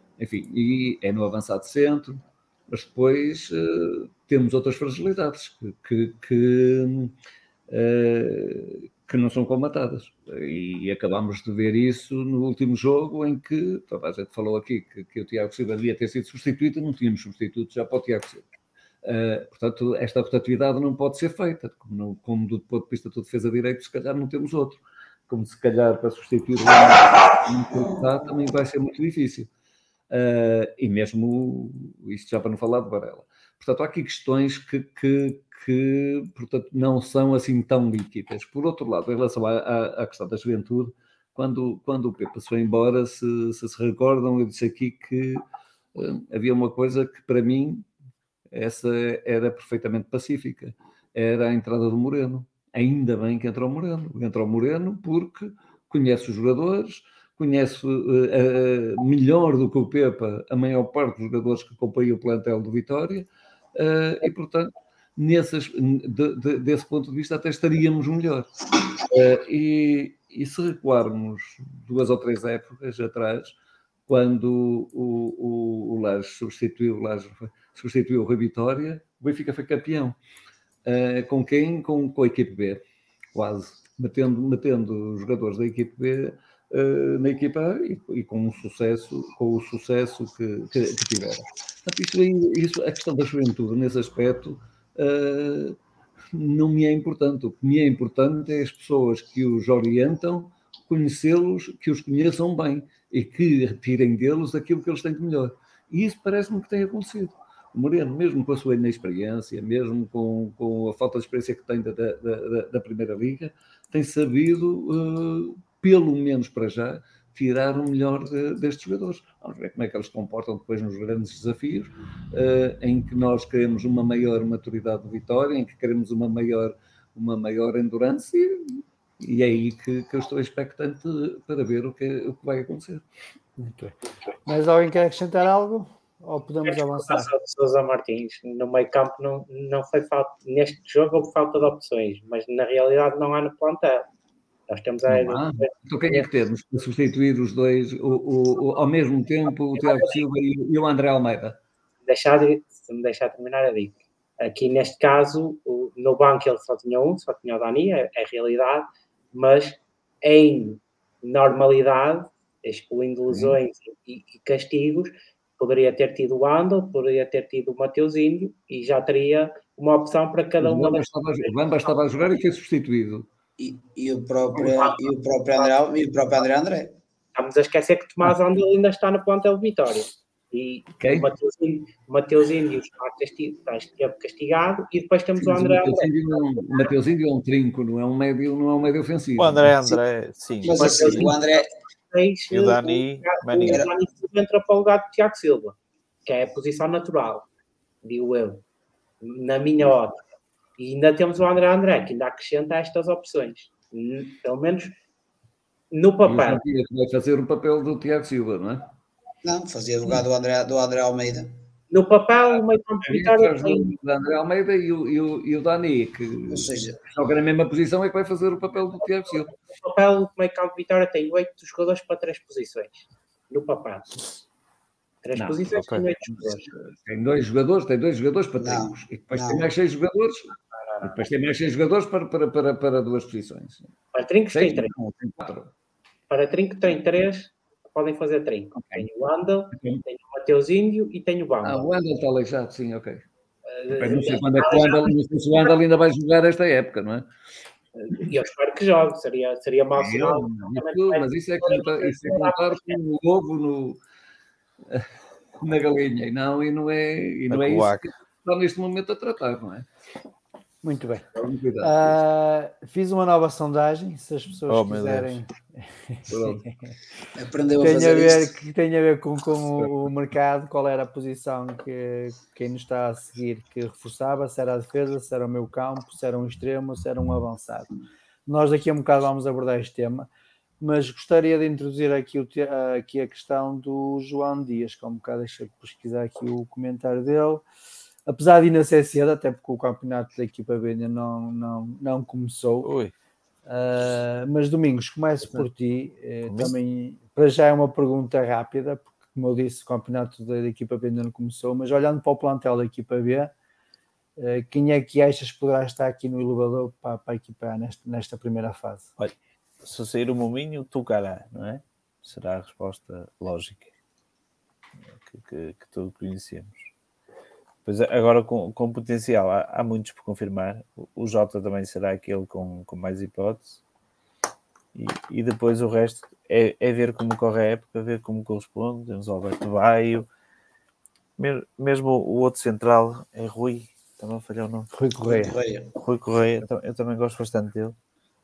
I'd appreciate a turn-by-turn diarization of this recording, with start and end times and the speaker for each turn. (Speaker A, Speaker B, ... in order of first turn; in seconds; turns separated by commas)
Speaker A: 0.2-7.1, Speaker A: 7.7-18.5, Speaker A: 19.0-29.5, Speaker A: 30.1-45.4, Speaker A: 46.0-47.9, Speaker A: 48.5-73.5, Speaker A: 74.1-80.2, Speaker A: 80.8-82.8, Speaker A: 83.3-95.8, Speaker A: 96.3-133.0, Speaker B: 133.6-133.9, Speaker B: 134.5-137.3, Speaker C: 136.7-144.1, Speaker C: 144.7-146.2, Speaker A: 145.1-151.6, Speaker C: 149.8-150.2, Speaker C: 152.1-171.9, Speaker A: 163.3-163.6, Speaker A: 170.6-173.3, Speaker D: 173.6-176.9, Speaker C: 174.6-175.7, Speaker C: 177.3-186.9, Speaker A: 181.0-181.3, Speaker A: 185.4-189.8, Speaker E: 189.4-191.3, Speaker D: 190.6-191.7, Speaker C: 190.8-195.8, Speaker E: 192.5-193.8, Speaker D: 193.7-193.9, Speaker C: 196.3-197.5, Speaker C: 198.0-198.6, Speaker C: 199.2-200.2, Speaker C: 200.8-204.9, Speaker C: 205.9-206.6, Speaker A: 206.3-208.9, Speaker D: 209.4-211.5, Speaker C: 211.9-214.0, Speaker A: 213.1-219.5, Speaker D: 216.5-217.0, Speaker C: 219.7-224.2, Speaker C: 225.2-226.6, Speaker A: 225.3-233.9, Speaker D: 228.6-229.7, Speaker C: 230.8-231.2, Speaker C: 234.1-234.9, Speaker A: 234.5-235.7, Speaker C: 236.3-241.9, Speaker A: 238.8-239.1, Speaker A: 239.8-240.0, Speaker A: 241.6-243.2, Speaker C: 243.7-245.2, Speaker A: 243.9-247.3, Speaker A: 248.0-248.3, Speaker C: 248.1-252.9, Speaker A: 249.9-254.0, Speaker A: 254.9-259.9, Speaker E: 257.5-258.1, Speaker B: 260.8-261.3, Speaker A: 261.4-262.2, Speaker B: 261.8-266.7, Speaker E: 264.7-265.4, Speaker A: 266.3-266.7, Speaker D: 267.4-268.6, Speaker B: 267.8-277.9, Speaker B: 278.5-280.3, Speaker B: 280.8-287.6, Speaker B: 288.3-292.9, Speaker E: 292.8-293.1, Speaker B: 293.7-303.5, Speaker E: 296.5-296.7, Speaker B: 304.4-309.1, Speaker E: 309.2-313.9, Speaker E: 315.1-316.9, Speaker E: 317.9-323.8, Speaker E: 324.9-330.3, Speaker E: 331.4-334.9, Speaker B: 334.9-335.6, Speaker D: 335.3-335.9, Speaker E: 336.0-338.0